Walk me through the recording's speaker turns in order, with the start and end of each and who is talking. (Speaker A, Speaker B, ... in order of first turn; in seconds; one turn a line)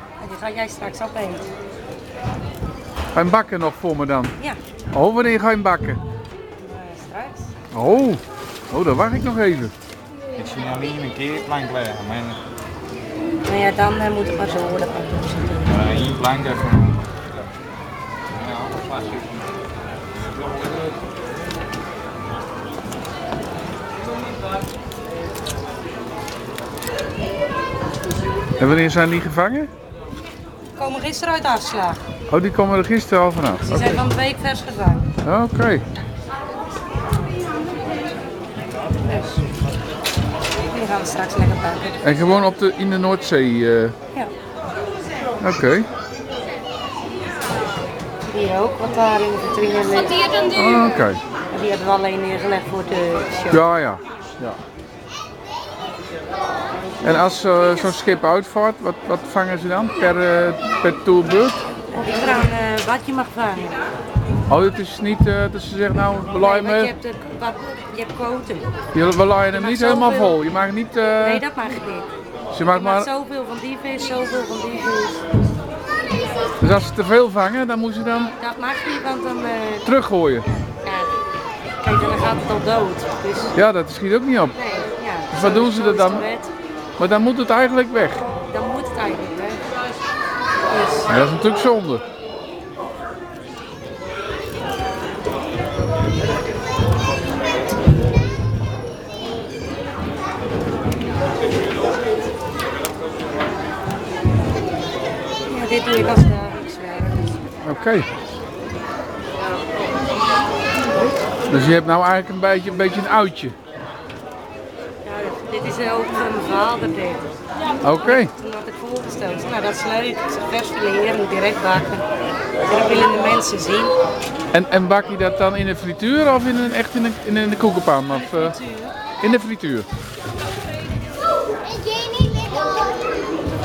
Speaker A: 0.2-1.5
Speaker B: 3.1-4.3
Speaker B: 4.9-6.0
Speaker A: 6.6-7.5
Speaker B: 7.7-9.7
Speaker C: 10.3-12.4
Speaker A: 13.4-15.8
Speaker C: 15.7-17.0
Speaker C: 18.3-19.5
Speaker B: 28.6-29.7
Speaker A: 30.8-32.0
Speaker B: 32.3-34.0
Speaker A: 33.6-35.0
Speaker B: 35.2-35.8
Speaker A: 39.0-39.5
Speaker A: 40.7-42.0
Speaker B: 42.0-43.9
Speaker B: 45.4-45.9
Speaker A: 48.2-50.5
Speaker B: 50.5-51.2
Speaker A: 51.5-53.6
Speaker B: 53.5-54.6
Speaker B: 57.0-61.6
Speaker A: 61.9-63.8
Speaker B: 64.5-66.9
Speaker A: 66.3-68.7
Speaker B: 68.9-71.4
Speaker A: 69.5-70.4
Speaker A: 71.2-72.1
Speaker B: 72.5-73.1
Speaker A: 72.7-75.2
Speaker B: 76.6-78.3
Speaker A: 78.3-79.8
Speaker B: 79.8-80.5
Speaker A: 80.8-81.1
Speaker A: 81.8-83.5
Speaker B: 83.5-84.5
Speaker A: 84.5-86.5
Speaker B: 85.3-86.2
Speaker B: 87.0-88.2
Speaker A: 88.4-89.6
Speaker A: 90.7-91.1
Speaker B: 91.1-92.0
Speaker A: 105.5-107.5
Speaker B: 107.6-108.1
Speaker B: 111.5-113.5
Speaker A: 115.0-117.2
Speaker B: 117.8-118.3
Speaker A: 118.0-122.0
Speaker A: 122.6-123.9
Speaker B: 124.5-128.6
Speaker A: 128.1-128.9
Speaker B: 129.2-129.9